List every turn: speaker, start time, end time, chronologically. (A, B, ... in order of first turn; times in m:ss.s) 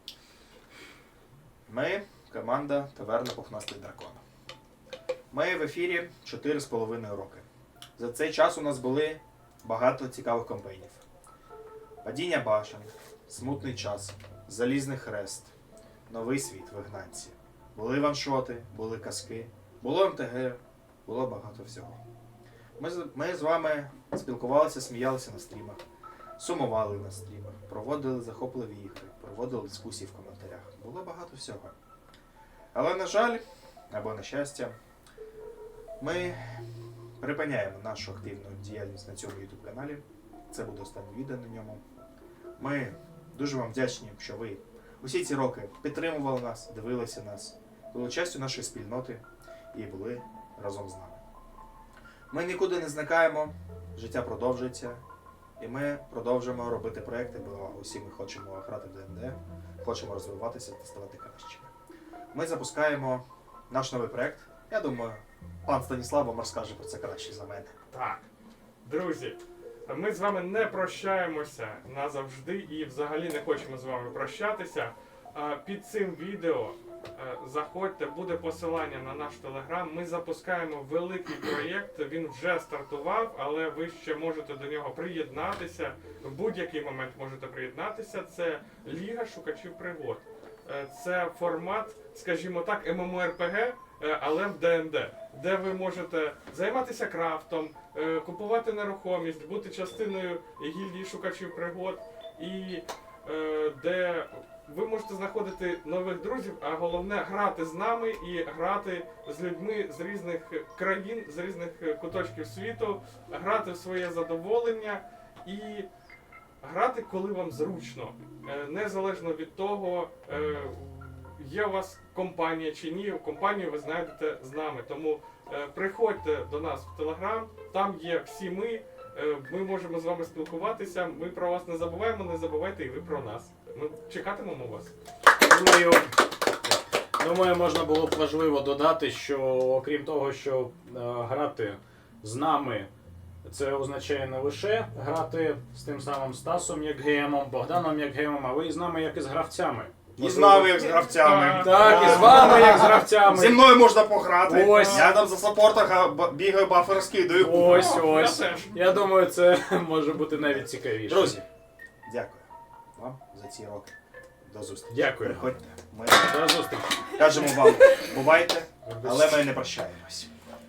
0:01.7-0:04.2 A
0:05.3-0:07.4 A
0:08.0-0:11.0 A
0:12.0-0:15.5 A
0:16.1-0:22.0 A
0:22.8-0:25.8 A
0:26.4-0:31.7 A
0:32.7-0:34.8 A
0:36.0-0:36.4 A
0:37.2-0:41.8 A
0:42.6-0:51.2 A
0:52.3-0:55.0 A
0:55.6-1:01.7 A
1:02.3-1:07.7 A
1:07.9-1:08.3 B
1:08.8-1:55.9 B
1:56.6-2:14.9 B
2:15.4-2:16.1 C
2:17.2-2:22.9 C
2:23.4-2:30.9 C
2:30.2-2:38.1 A
2:30.8-2:32.8 B
2:31.5-2:33.8 C
2:34.5-2:35.1 C
2:34.6-2:35.1 B
2:37.4-2:41.4 C
2:37.5-2:38.8 B
2:40.6-2:41.5 A
2:42.0-2:43.9 A
2:44.5-2:46.4 A
2:44.9-2:45.4 C
2:46.2-2:47.7 C
2:47.1-2:50.3 A
2:48.9-2:49.4 C